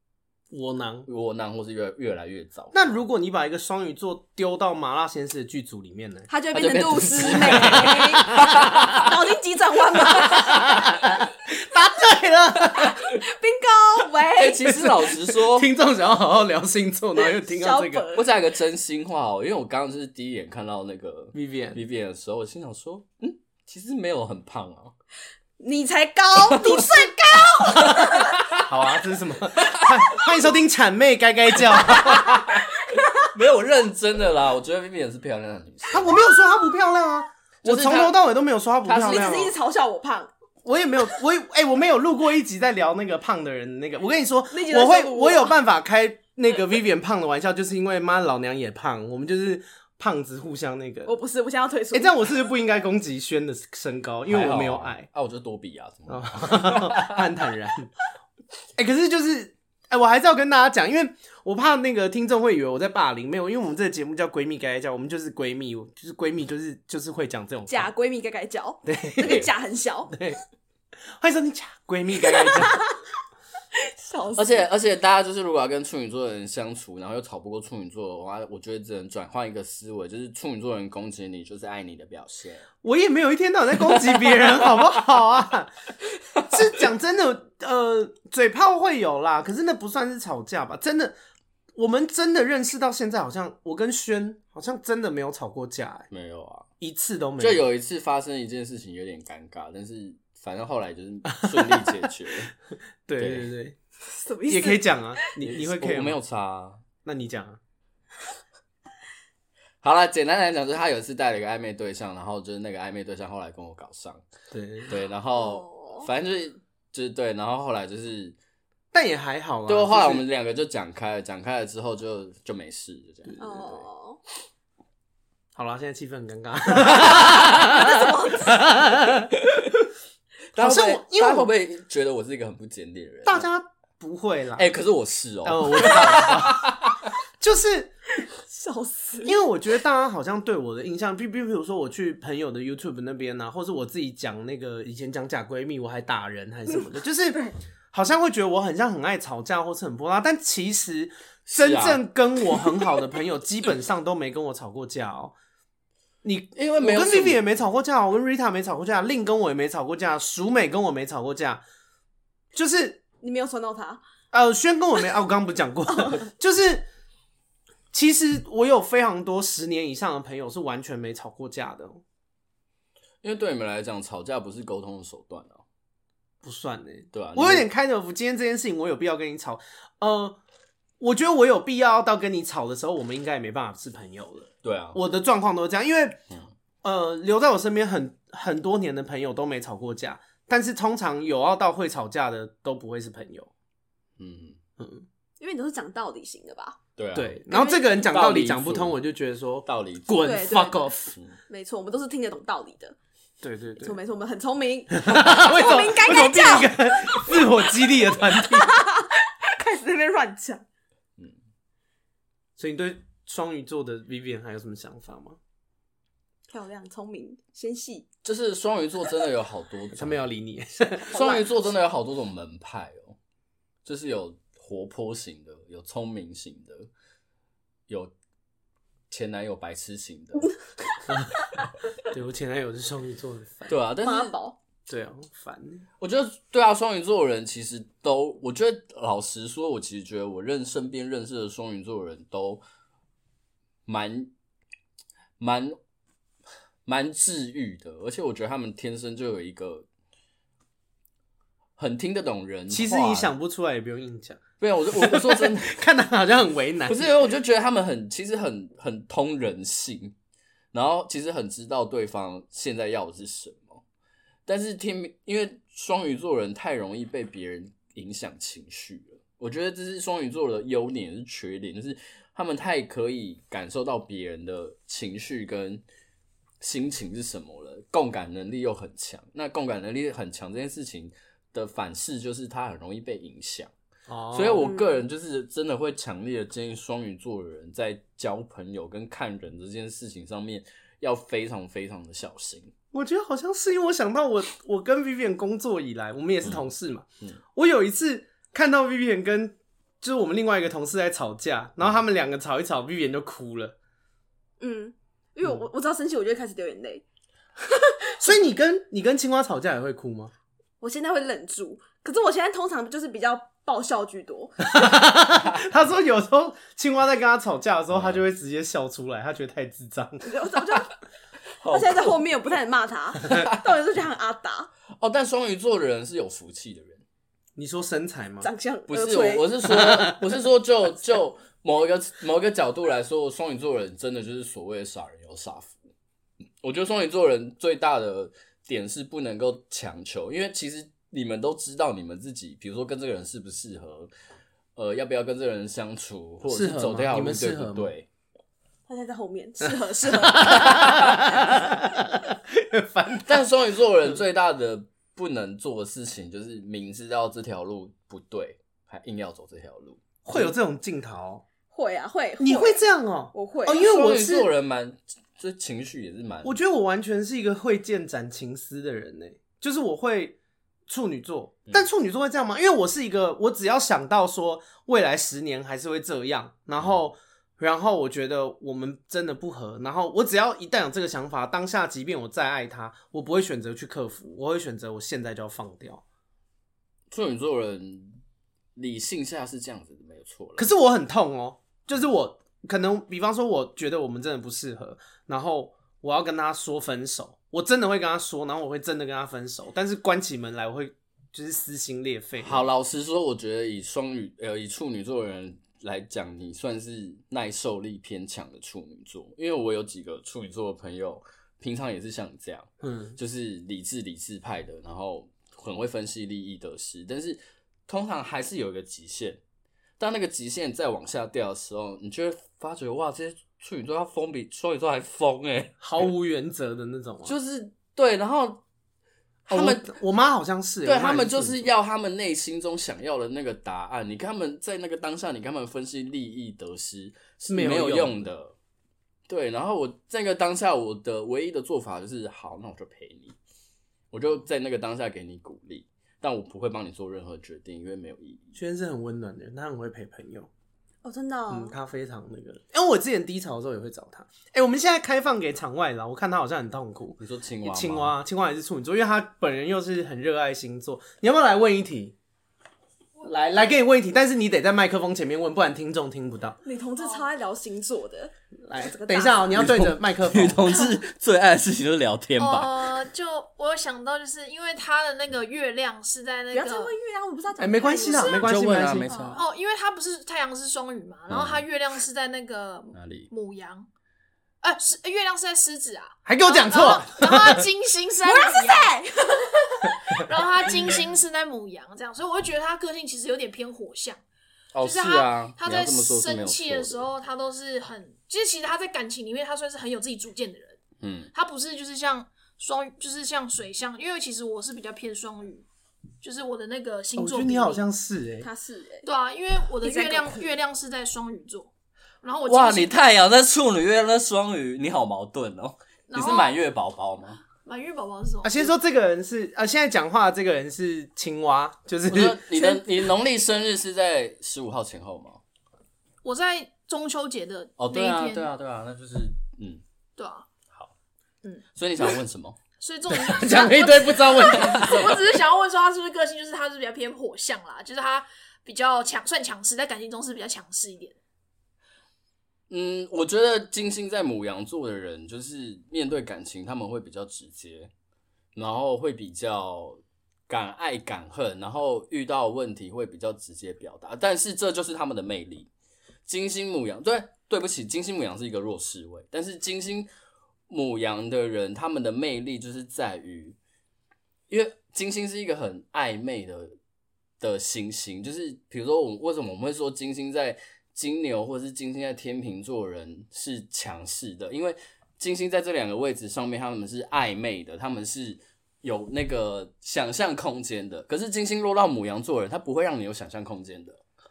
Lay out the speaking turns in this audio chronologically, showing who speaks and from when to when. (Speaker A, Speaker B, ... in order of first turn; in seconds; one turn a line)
Speaker A: 0.5-1.1
Speaker B: 1.1-3.0
Speaker A: 2.7-6.3
Speaker C: 6.3-10.9
Speaker B: 6.5-9.1
Speaker A: 7.3-8.8
Speaker A: 10.0-13.0
Speaker C: 12.8-14.7
Speaker B: 14.3-15.7
Speaker A: 14.7-18.1
Speaker C: 17.4-18.3
Speaker B: 18.1-24.9
Speaker A: 21.3-21.8
Speaker C: 25.6-28.4
Speaker B: 26.5-26.9
Speaker B: 27.8-28.6
Speaker A: 28.6-32.4
Speaker B: 31.9-32.7
Speaker B: 33.2-36.2
Speaker A: 35.9-39.5
Speaker B: 37.6-38.2
Speaker B: 38.8-39.5
Speaker C: 39.0-40.3
Speaker A: 40.6-51.1
Speaker C: 44.5-45.5
Speaker C: 51.1-52.3
Speaker A: 51.9-55.1
Speaker B: 54.3-57.2
Speaker A: 56.1-57.9
Speaker A: 58.8-67.9
Speaker C: 67.7-70.1
Speaker A: 68.9-69.5
Speaker A: 70.1-70.4
Speaker A: 71.2-72.9
Speaker C: 72.5-72.9
Speaker C: 73.8-74.7
Speaker B: 74.3-82.7
Speaker A: 82.8-85.7
Speaker B: 84.1-84.5
Speaker A: 86.5-91.1
Speaker A: 91.8-96.1
Speaker B: 96.1-96.7
Speaker A: 96.8-97.7
Speaker B: 97.4-102.5
Speaker A: 101.3-101.9
Speaker A: 103.1-103.8
Speaker B: 103.2-103.5
Speaker C: 104.1-104.8
Speaker A: 104.5-106.2
Speaker B: 105.4-106.8
Speaker A: 107.0-107.6
Speaker B: 109.8-114.2
Speaker A: 114.5-114.9
Speaker B: 114.9-118.4
Speaker C: 115.4-116.1
Speaker A: 118.9-120.2
Speaker B: 119.7-123.9
Speaker C: 123.4-124.2
Speaker A: 125.5-129.3
Speaker C: 127.4-128.7
Speaker B: 130.5-133.5
Speaker A: 130.6-131.5
Speaker A: 133.2-134.7
Speaker B: 134.6-137.0
Speaker A: 135.4-136.8
Speaker A: 137.4-138.0
Speaker C: 138.4-139.4
Speaker A: 139.2-155.4
Speaker B: 151.5-152.0
Speaker A: 156.2-161.6
Speaker B: 156.6-157.4
Speaker A: 162.5-163.0
Speaker C: 163.2-164.0
Speaker A: 164.3-166.9
Speaker A: 167.9-172.0
Speaker B: 173.2-175.6
Speaker A: 176.4-180.4
Speaker B: 177.1-177.7
Speaker A: 181.0-186.2
Speaker B: 184.6-185.0
Speaker A: 186.8-193.5
Speaker B: 194.2-194.6
Speaker A: 194.8-195.1
Speaker C: 195.4-196.8
Speaker B: 197.0-199.0
Speaker A: 197.2-201.1
Speaker C: 197.5-197.8
Speaker B: 199.7-200.4
Speaker C: 200.2-200.9
Speaker C: 201.5-202.9
Speaker A: 203.4-204.0
Speaker C: 203.8-207.4
Speaker A: 204.9-208.7
Speaker C: 208.6-210.6
Speaker A: 212.6-215.4
Speaker C: 216.5-218.1
Speaker B: 218.2-220.2
Speaker A: 219.9-221.2
Speaker B: 221.1-223.2
Speaker C: 221.1-221.4
Speaker B: 223.8-226.9
Speaker B: 227.9-228.1
Speaker B: 229.1-230.6
Speaker A: 231.1-231.5
Speaker A: 232.1-233.8
Speaker B: 233.7-234.3
Speaker C: 234.0-234.6
Speaker A: 234.9-235.9
Speaker B: 236.0-242.6
Speaker B: 243.9-244.3
Speaker B: 245.4-245.8
Speaker B: 246.9-249.9
Speaker B: 251.8-253.3
Speaker A: 252.7-257.1
Speaker B: 254.6-255.8
Speaker B: 256.9-260.1
Speaker B: 260.7-263.8
Speaker B: 264.5-275.8
Speaker B: 276.6-283.7
Speaker A: 284.1-284.7
Speaker B: 284.3-292.7
Speaker C: 284.6-285.0
Speaker A: 292.9-303.8
Speaker C: 304.6-307.0
Speaker C: 307.8-308.2
Speaker A: 308.2-310.3
Speaker C: 310.8-314.6
Speaker A: 314.6-320.3
Speaker B: 317.9-318.2
Speaker C: 320.2-320.9
Speaker B: 321.6-322.2
Speaker C: 321.7-324.7
Speaker B: 323.3-323.7
Speaker B: 325.0-327.0
Speaker A: 327.6-328.5
Speaker C: 328.4-329.5
Speaker B: 328.9-335.8
Speaker A: 329.7-330.2
Speaker B: 336.6-344.1
Speaker B: 344.8-348.1
Speaker A: 346.5-347.9
Speaker C: 348.9-351.1
Speaker A: 349.6-353.4
Speaker B: 353.2-360.5
Speaker A: 360.2-361.4
Speaker C: 361.7-362.8
Speaker A: 362.4-364.5
Speaker C: 363.3-363.9
Speaker B: 363.8-366.6
Speaker A: 366.4-370.4
Speaker A: 370.9-386.0
Speaker B: 387.1-388.2
Speaker B: 388.8-390.6
Speaker A: 390.6-402.7
Speaker B: 402.4-419.4
Speaker A: 412.8-413.2
Speaker B: 420.0-425.8
Speaker A: 425.8-427.4
Speaker B: 427.2-428.6
Speaker B: 429.5-429.9
Speaker A: 429.5-431.7
Speaker B: 430.9-438.5
Speaker A: 437.5-438.3
Speaker B: 439.3-443.4
Speaker B: 444.1-448.5
Speaker A: 448.6-450.5
Speaker C: 451.0-451.7
Speaker A: 451.5-462.2
Speaker B: 457.2-458.1
Speaker A: 463.2-466.6
Speaker C: 466.6-469.6
Speaker D: 467.0-467.3
Speaker A: 468.6-470.7
Speaker B: 469.6-472.8
Speaker D: 472.4-476.9
Speaker C: 476.5-478.5
Speaker A: 477.6-479.1
Speaker B: 478.4-479.4
Speaker C: 479.1-479.4
Speaker D: 479.3-483.9
Speaker B: 481.3-481.6
Speaker B: 482.9-483.3
Speaker D: 484.6-494.2
Speaker A: 486.3-487.7
Speaker C: 488.2-489.9
Speaker B: 494.7-497.1
Speaker D: 494.8-500.8
Speaker B: 501.0-501.3
Speaker D: 501.3-505.7
Speaker D: 506.2-507.9
Speaker A: 507.2-508.5
Speaker C: 508.4-509.1
Speaker D: 509.1-511.7
Speaker C: 509.8-510.5
Speaker D: 512.2-513.0
Speaker B: 512.5-517.4
Speaker D: 516.1-516.5
Speaker D: 517.6-518.7
Speaker A: 518.4-522.4
Speaker B: 522.1-525.4
Speaker C: 522.6-522.8
Speaker D: 526.2-528.5
Speaker B: 527.8-529.8
Speaker D: 530.2-530.5
Speaker B: 531.8-532.6
Speaker D: 532.8-541.2
Speaker A: 533.1-535.4
Speaker B: 542.7-547.9
Speaker B: 548.5-555.7
Speaker B: 556.3-560.1
Speaker B: 560.7-563.6
Speaker B: 564.5-566.8
Speaker B: 567.4-584.0